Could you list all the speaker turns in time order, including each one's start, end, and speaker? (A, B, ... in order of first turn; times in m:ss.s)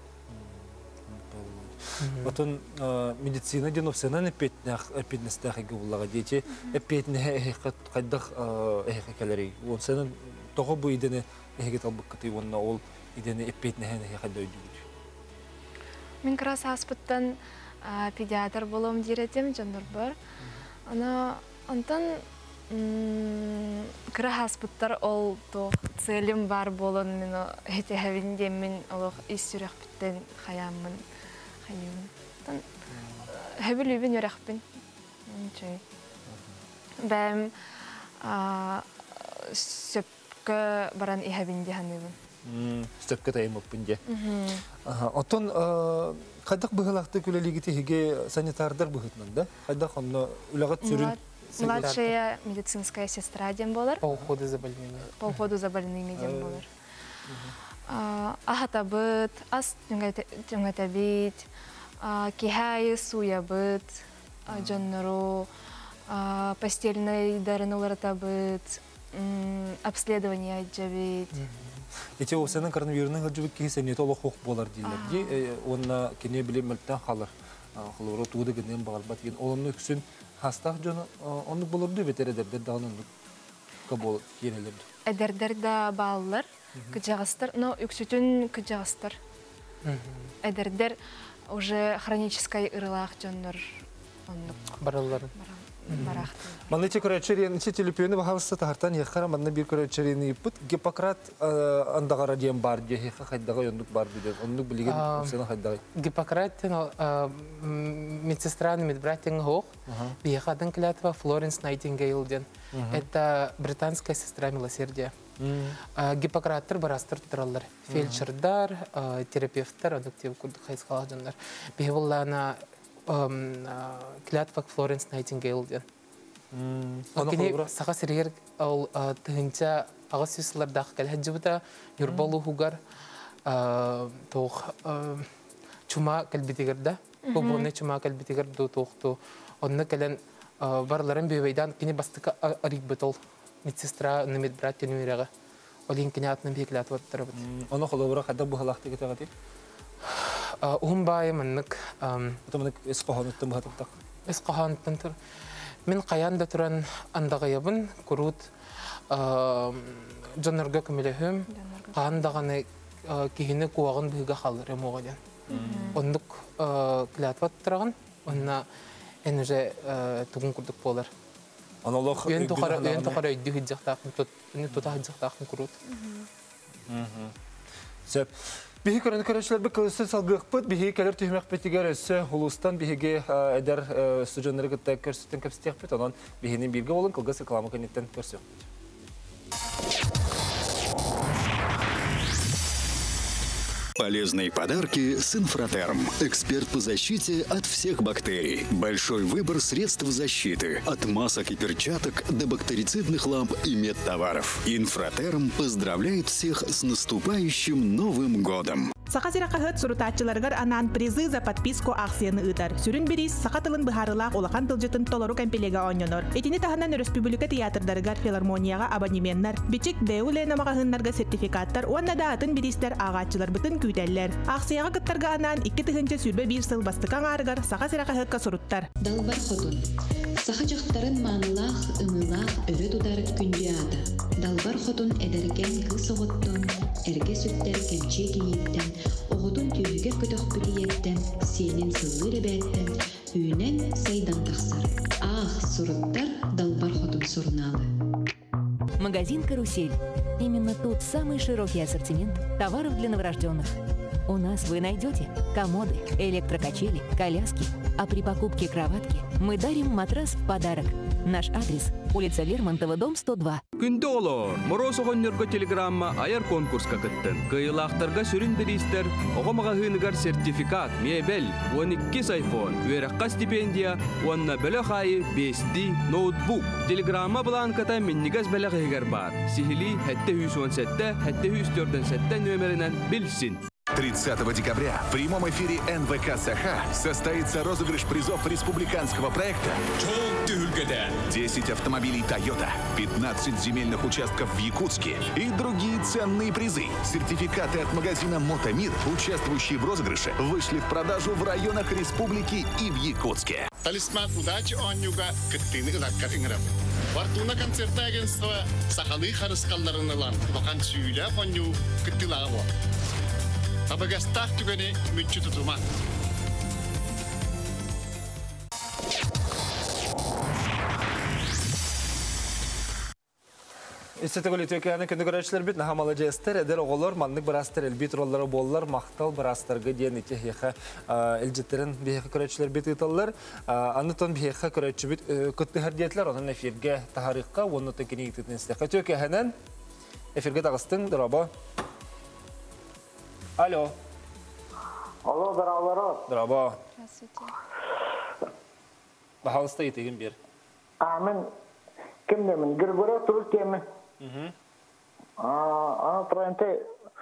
0:00.3-0:14.8 A
0:02.0-0:02.4 B
0:16.2-0:20.2 C
0:20.9-0:31.0 C
0:31.6-0:32.6 C
0:32.9-0:33.3 A
0:33.3-0:34.6 C
0:35.3-0:35.8 C
0:37.0-0:42.2 C
0:42.4-0:44.0 A
0:44.1-0:44.6 C
0:44.8-0:52.0 A
0:50.8-0:54.0 C
0:51.6-0:52.1 B
0:54.0-0:55.4 B
0:55.2-0:56.7 C
0:56.2-0:56.6 A
0:57.3-0:57.5 A
0:57.9-1:01.5 C
1:02.0-1:05.5 C
1:04.5-1:04.9 A
1:06.1-1:11.3 C
1:11.3-1:11.8 B
1:12.2-1:23.1 A
1:14.8-1:15.4 C
1:23.9-1:24.8 A
1:25.0-1:29.2 C
1:26.7-1:27.0 A
1:29.8-1:30.3 B
1:30.4-1:34.8 C
1:34.8-1:35.3 B
1:35.3-1:36.8 C
1:35.9-1:36.2 B
1:36.0-1:45.8 A
1:44.8-1:45.4 B
1:45.9-1:55.1 B
1:49.9-1:50.2 A
1:52.7-1:53.0 A
1:55.4-1:55.8 A
1:55.9-2:05.8 B
1:57.9-1:58.2 A
2:06.5-2:07.7 A
2:07.2-2:12.8 B
2:12.0-2:12.4 A
2:13.4-2:15.3 B
2:15.9-2:25.3 B
2:17.2-2:17.7 C
2:25.9-2:27.4 B
2:27.3-2:29.3 A
2:30.0-2:32.4 B
2:32.5-2:33.9 A
2:34.3-2:35.1 B
2:35.9-2:38.5 B
2:39.1-2:45.2 B
2:41.5-2:42.4 C
2:45.5-2:46.0 A
2:45.5-2:46.0 C
2:45.9-2:48.6 B
2:49.2-2:51.1 B
2:51.8-2:53.2 A
2:52.3-2:55.7 B
2:54.7-2:55.0 A
2:55.9-2:56.3 C
2:56.9-2:57.3 A
2:58.1-3:08.7 A
3:14.0-3:28.9 D
3:29.1-3:48.9 E
3:49.0-3:49.8 F
3:50.4-4:07.9 F
4:09.0-4:13.7 G
4:14.3-4:23.6 G
4:23.8-4:43.6 H
4:43.9-5:03.7 I
5:03.8-5:12.7 J
5:13.9-5:15.8 J
5:24.2-5:39.6 A
5:40.3-5:41.5 A
5:43.6-5:44.0 A
5:45.2-5:46.2 K
5:46.3-5:46.8 A
5:47.0-5:47.6 C
5:49.4-5:50.4 A
5:51.0-5:51.4 K
5:52.3-5:53.8 K
5:54.2-5:54.5 A
5:55.4-5:56.8 K